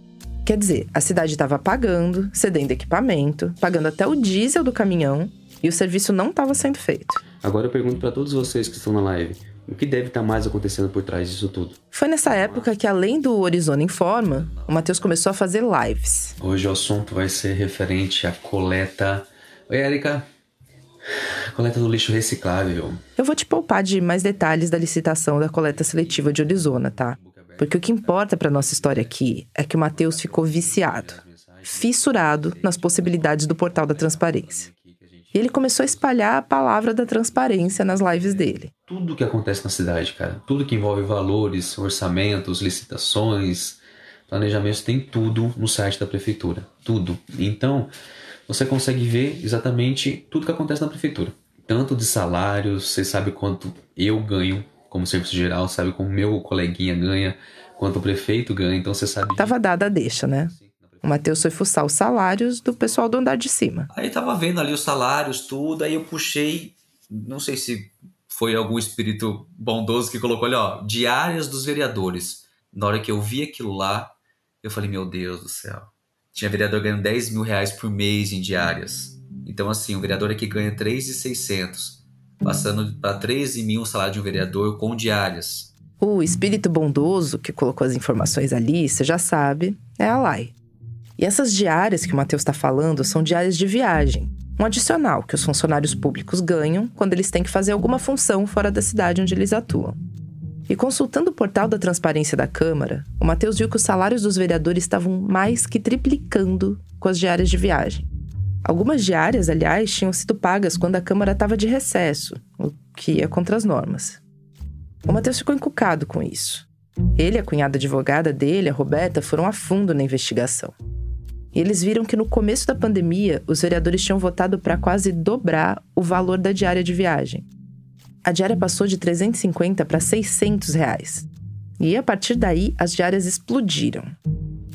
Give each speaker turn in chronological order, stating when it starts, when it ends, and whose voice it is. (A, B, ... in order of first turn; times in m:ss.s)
0:00.4-0:07.2 A
0:07.4-0:12.7 B
0:11.9-0:16.4 A
0:14.2-0:15.1 B
0:16.4-0:20.3 B
0:21.5-0:23.0 B
0:23.2-0:34.7 A
0:25.6-0:29.2 B
0:29.9-0:36.1 B
0:35.3-0:38.7 A
0:37.0-0:47.9 B
0:48.5-0:59.6 B
0:59.4-1:03.9 A
1:00.2-1:01.2 B
1:02.6-1:03.0 B
1:03.9-1:25.7 C
1:26.0-1:30.5 A
1:31.2-1:40.0 A
1:40.7-1:48.1 A
1:48.6-1:54.2 A
1:55.0-2:00.8 A
2:01.5-2:07.5 A
2:08.2-2:11.3 A
2:11.8-2:14.1 A